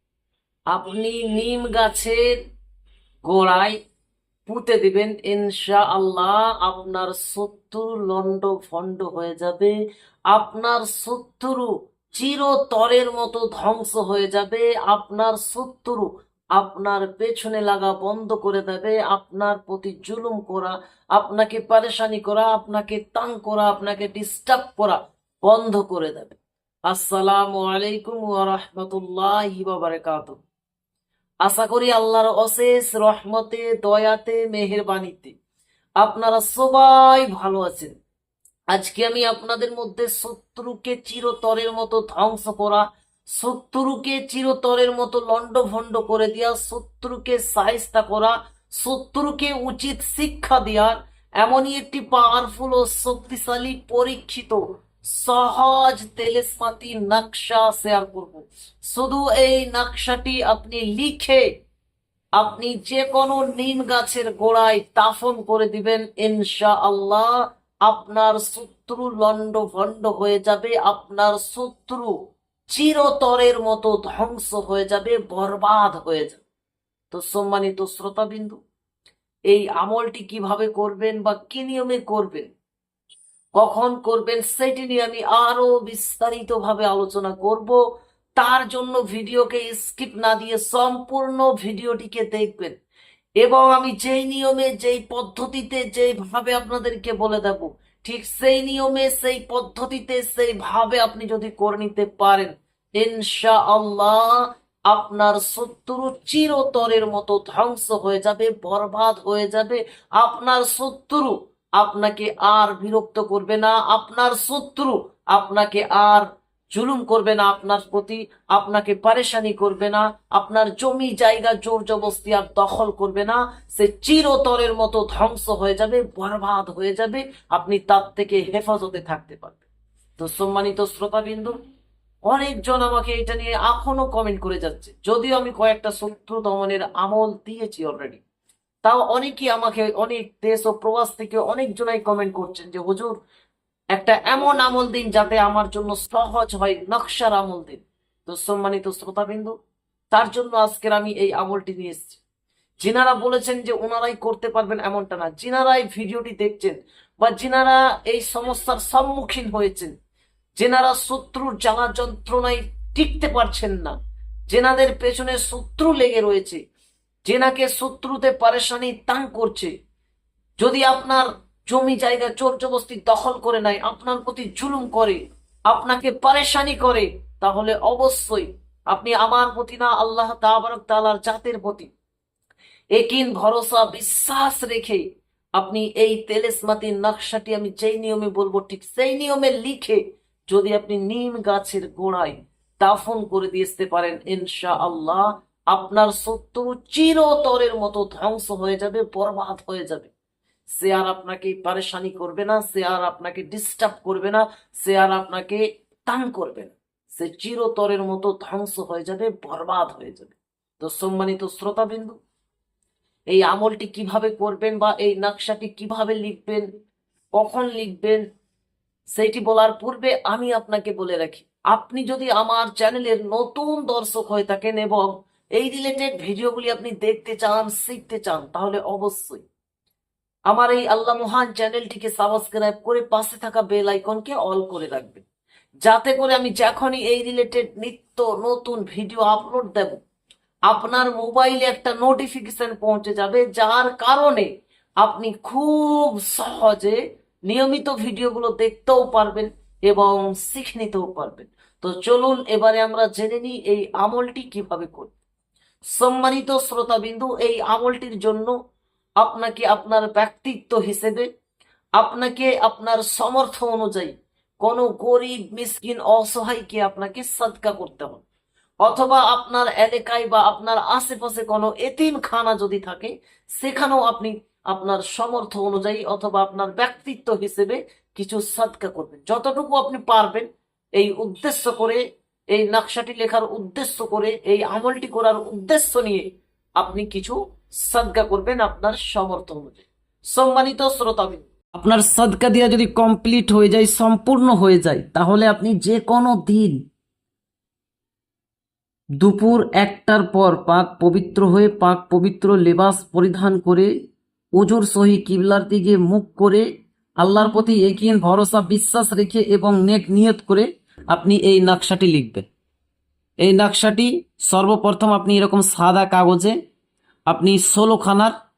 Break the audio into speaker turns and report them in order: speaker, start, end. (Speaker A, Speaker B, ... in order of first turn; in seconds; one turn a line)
Speaker A: 0.7-2.2
Speaker A: 3.2-3.8
Speaker A: 4.5-9.7
Speaker A: 10.3-30.4
Speaker A: 31.4-35.3
Speaker A: 36.0-37.9
Speaker A: 38.7-61.4
Speaker A: 62.4-72.1
Speaker A: 72.7-76.4
Speaker A: 77.1-78.6
Speaker A: 79.5-82.5
Speaker A: 83.5-87.8
Speaker A: 88.4-92.7
Speaker A: 93.4-129.7
Speaker A: 130.2-131.5
Speaker A: 132.3-138.2
Speaker A: 138.8-143.2
Speaker A: 143.9-149.5
Speaker A: 150.1-152.2
Speaker A: 152.8-159.9
Speaker A: 160.6-163.9
Speaker A: 164.5-166.6
Speaker A: 167.2-169.7
Speaker A: 170.6-181.9
Speaker A: 182.9-185.0
Speaker A: 185.6-200.1
Speaker A: 200.7-212.2
Speaker A: 213.3-216.6
Speaker A: 217.4-218.2
Speaker A: 219.1-229.4
Speaker A: 230.5-235.2
Speaker A: 235.8-240.0
Speaker A: 240.7-244.5
Speaker A: 245.0-255.1
Speaker A: 255.9-258.5
Speaker A: 259.2-261.3
Speaker A: 262.0-268.2
Speaker A: 268.8-282.0
Speaker A: 282.5-286.2
Speaker A: 286.8-296.8
Speaker A: 299.2-303.9
Speaker A: 304.6-306.6
Speaker A: 307.2-312.4
Speaker A: 313.4-316.5
Speaker A: 317.3-318.3